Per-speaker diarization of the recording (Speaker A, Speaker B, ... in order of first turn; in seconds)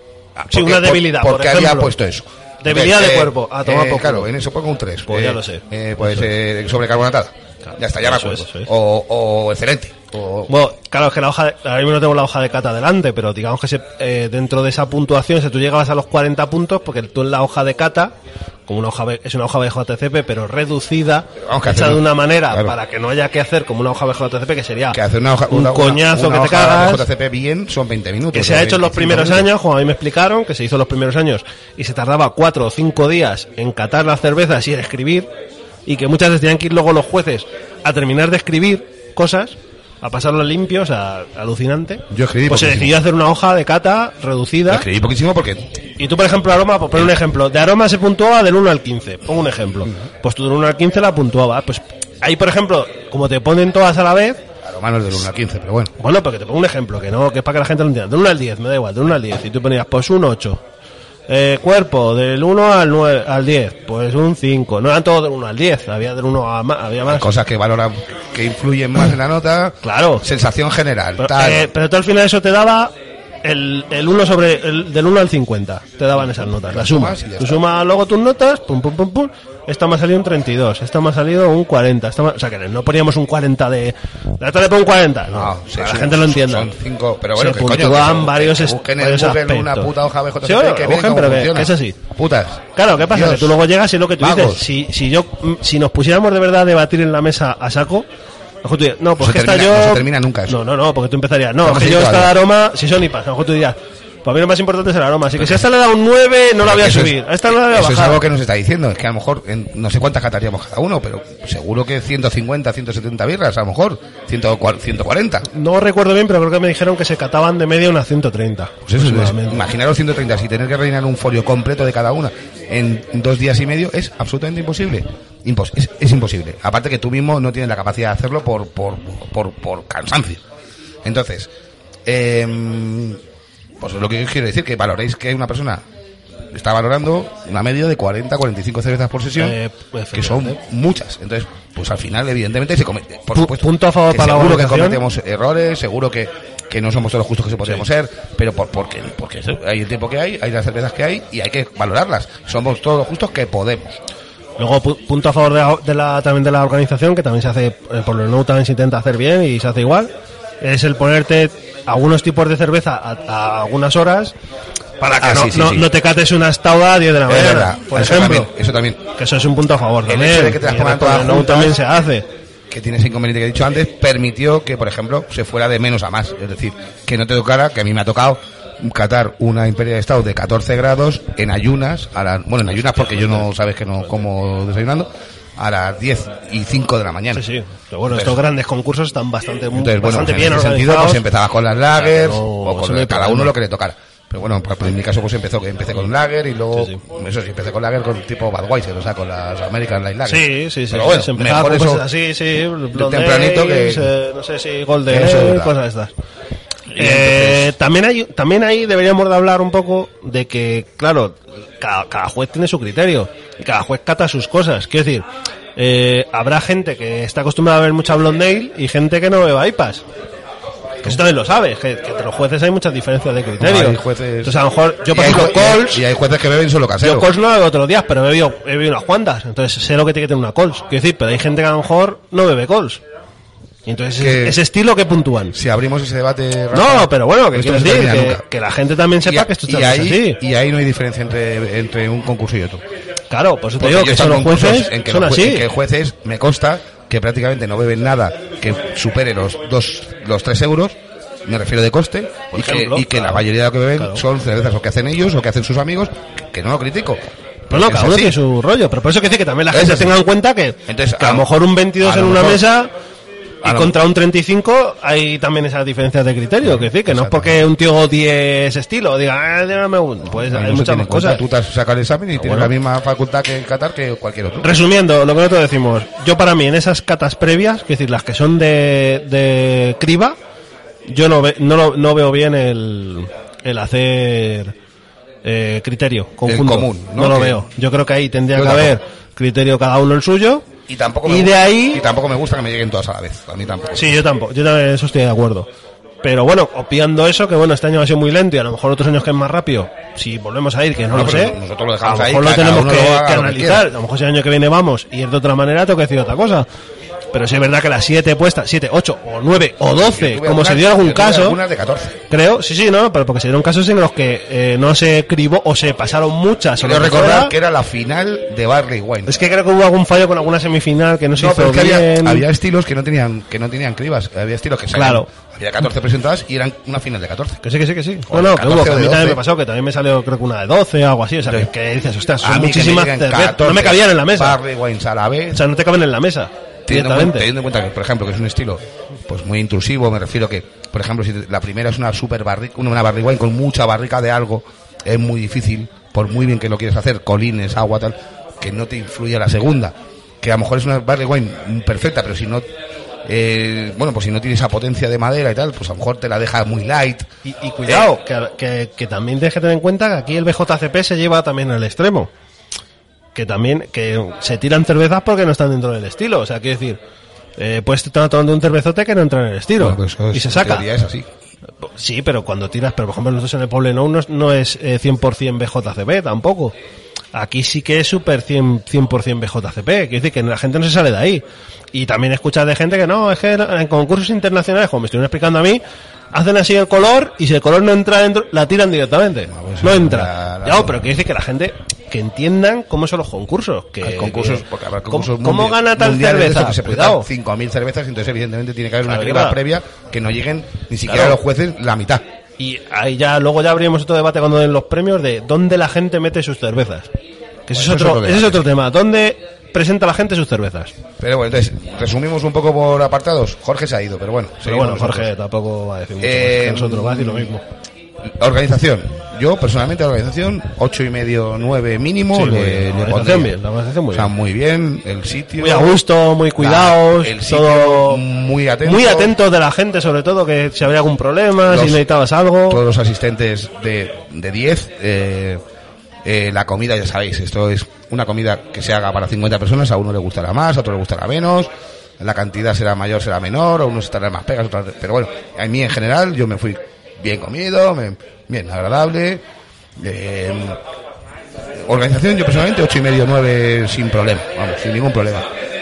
Speaker A: 0.3-10.5, 21.4-22.8, 24.9-29.5, 42.1-43.0, 44.7-45.7, 54.6-55.9, 67.0-71.7, 76.1-77.6, 85.3-93.5, 94.2-94.7, 99.2-100.6, 101.6-102.3, 105.3-105.6, 106.6-115.4, 118.8-130.4, 131.0-131.5, 132.1-133.2, 133.8-135.8, 136.5-139.6, 140.1-154.0, 165.2-165.9, 167.2-169.0, 170.1-171.8, 172.7-187.4, 188.1-188.4, 189.7-202.1, 202.9-204.1, 205.1-205.7, 206.9-207.7, 223.6-224.6, 225.1-227.3, 234.2-234.6, 235.5-238.4, 239.2-242.8, 243.8-258.4, 259.7-260.2, 260.9-262.7, 263.6-264.0, 266.6-267.7, 270.2-274.8, 286.4-287.6, 288.5-289.0, 290.9-294.2, 301.1-303.9, 309.9-312.2, 316.8-319.4, 321.3-327.6, 328.3-329.4, 332.4-335.6, 336.9-352.6, 353.2-357.3, 357.8-358.1, 369.8-371.3, 389.5-391.1, 394.0-402.2, 407.7-408.6, 411.2-415.3, 416.2-417.5, 418.2-423.6, 424.1-426.0, 426.6-429.3, 431.6-432.0, 432.7-435.6, 436.2-449.4, 450.0-450.8, 451.8-455.5
Speaker B: 0.5-1.9, 2.6-4.3, 5.0-6.3, 7.6-8.7, 10.5-18.1, 18.7-25.0, 25.5-27.1, 28.3-35.3, 35.9-44.9, 46.0-54.4, 56.0-60.6, 61.3-67.3, 69.8-70.2, 71.2-72.9, 73.4-86.7, 87.3-92.0, 92.7-98.1, 98.6-108.2, 115.5-119.7, 139.4-140.6, 143.3-145.0, 154.6-164.3, 165.0-168.5, 169.2-172.3, 182.7-184.2, 187.3-191.2, 191.9-193.5, 196.7-197.0, 200.2-206.1, 206.9-220.0, 221.0-226.0, 227.0-233.0, 233.8-235.5, 236.7-240.4, 243.3-245.7, 252.6-253.4, 254.0-254.2, 257.7-262.9, 263.6-271.4, 272.4-272.7, 274.6-280.4, 281.1-284.7, 285.4-290.6, 291.2-292.0, 293.9-295.7, 296.2-306.7, 307.3-311.6, 312.3-317.5, 319.2-322.4, 324.9-325.3, 327.6-334.6, 335.5-337.5, 357.4-362.3, 363.3-367.0, 367.6-370.9, 371.8-376.7, 377.3-385.8, 386.3-397.3, 399.0-399.6, 401.1-401.4, 402.6-407.1, 407.7-410.9, 414.6-417.6, 422.3-424.3, 425.6-428.2, 428.8-432.8